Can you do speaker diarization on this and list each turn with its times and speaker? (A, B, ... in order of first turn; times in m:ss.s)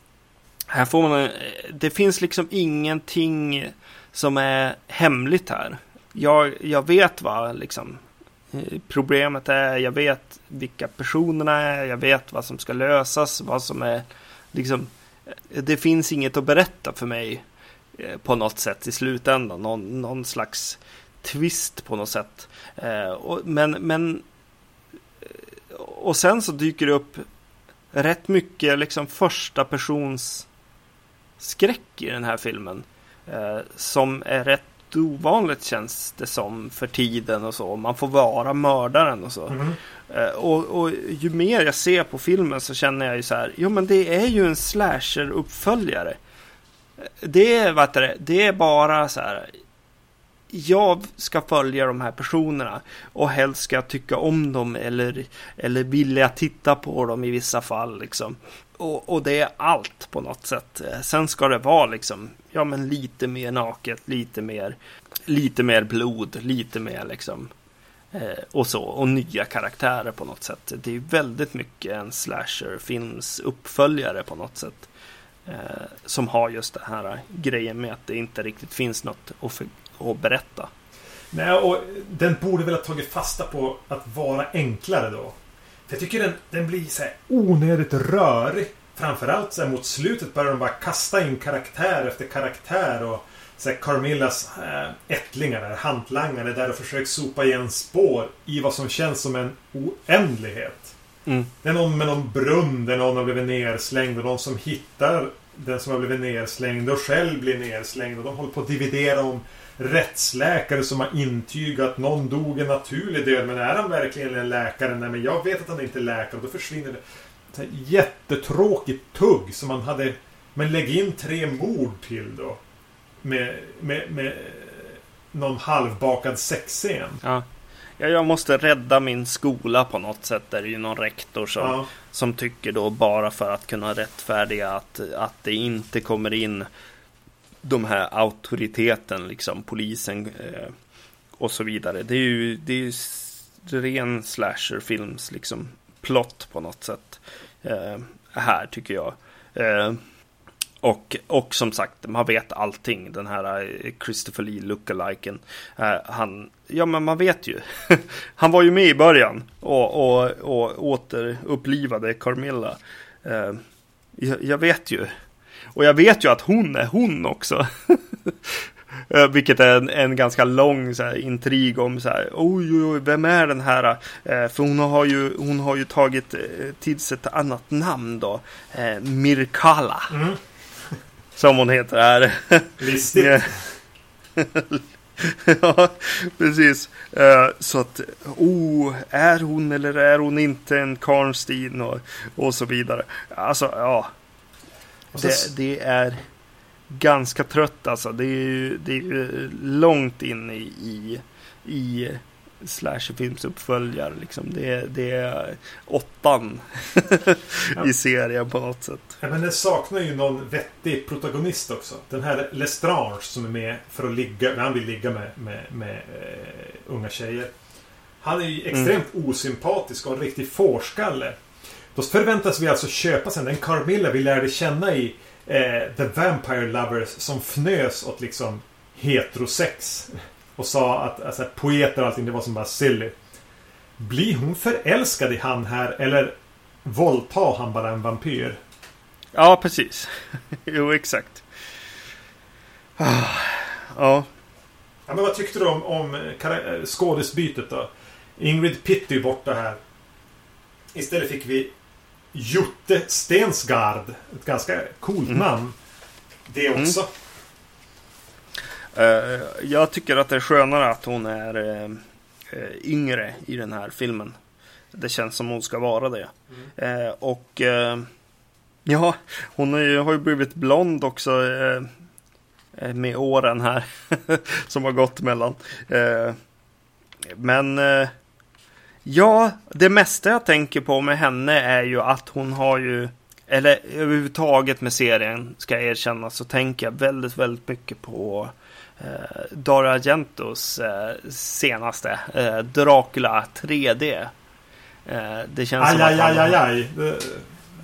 0:00.7-0:14.9 A
0:15.5-0:17.4 A
0:17.9-0:24.2 A
0:25.7-0:27.2 A
0:27.9-0:30.5 A
0:31.4-0:46.2 A
0:39.5-0:39.8 B
0:47.0-0:49.5 A
0:50.5-1:07.5 A
1:08.1-1:14.9 A
1:15.4-1:20.7 A
1:21.3-1:25.4 B
1:25.9-1:40.9 B
1:41.6-2:02.6 B
2:03.2-2:07.2 B
2:08.0-2:16.7 A
2:11.6-2:11.9 B
2:17.6-2:20.7 A
2:21.4-2:30.0 A
2:30.8-2:43.6 A
2:44.2-2:45.1 A
2:45.7-3:00.1 A
3:00.1-3:00.4 B
3:01.4-3:03.5 A
3:02.8-3:03.6 B
3:04.4-3:14.1 A
3:15.1-3:15.5 B
3:15.2-3:16.2 A
3:16.9-3:29.2 A
3:29.2-3:37.5 B
3:38.2-3:41.4 B
3:41.9-3:53.1 B
3:54.0-3:58.6 B
3:59.3-4:01.4 A
4:03.0-4:04.3 A
4:05.1-4:09.8 B
4:10.9-4:11.7 B
4:12.3-4:15.8 B
4:16.5-4:17.1 B
4:18.9-4:24.4 A
4:24.9-4:28.1 A
4:28.8-4:31.9 A
4:32.7-4:36.4 A
4:37.3-4:38.1 A
4:39.0-4:54.3 A
4:55.0-4:56.6 A
4:55.8-4:57.5 B